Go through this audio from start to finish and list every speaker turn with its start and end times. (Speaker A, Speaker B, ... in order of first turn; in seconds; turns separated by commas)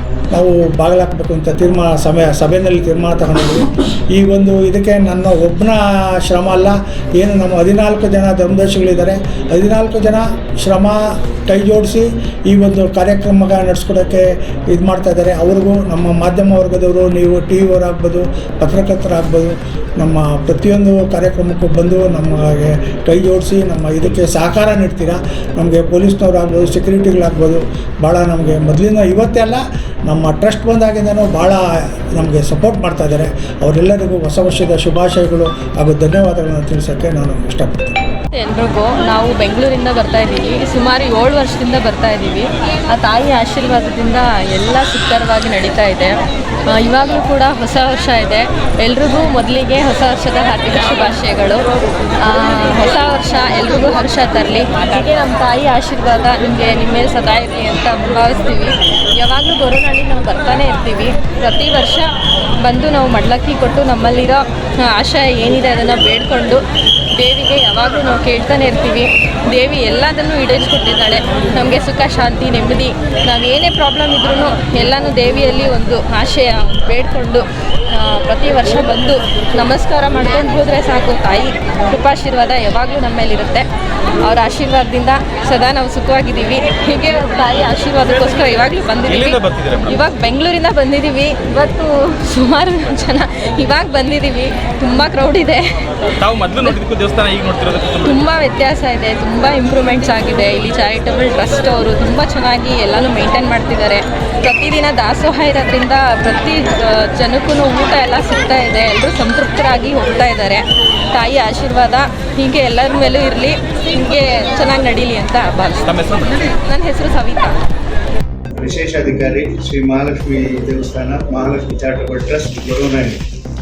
Speaker A: 0.3-38.0, Speaker B: 38.3-46.1, Speaker B: 46.7-51.7, Speaker B: 52.2-62.1, Speaker B: 62.6-66.6, Speaker B: 67.2-83.7, Speaker B: 84.3-95.8, Speaker C: 89.1-90.0, Speaker C: 96.2-98.2, Speaker B: 98.0-117.5, Speaker C: 115.8-116.3, Speaker D: 118.6-123.2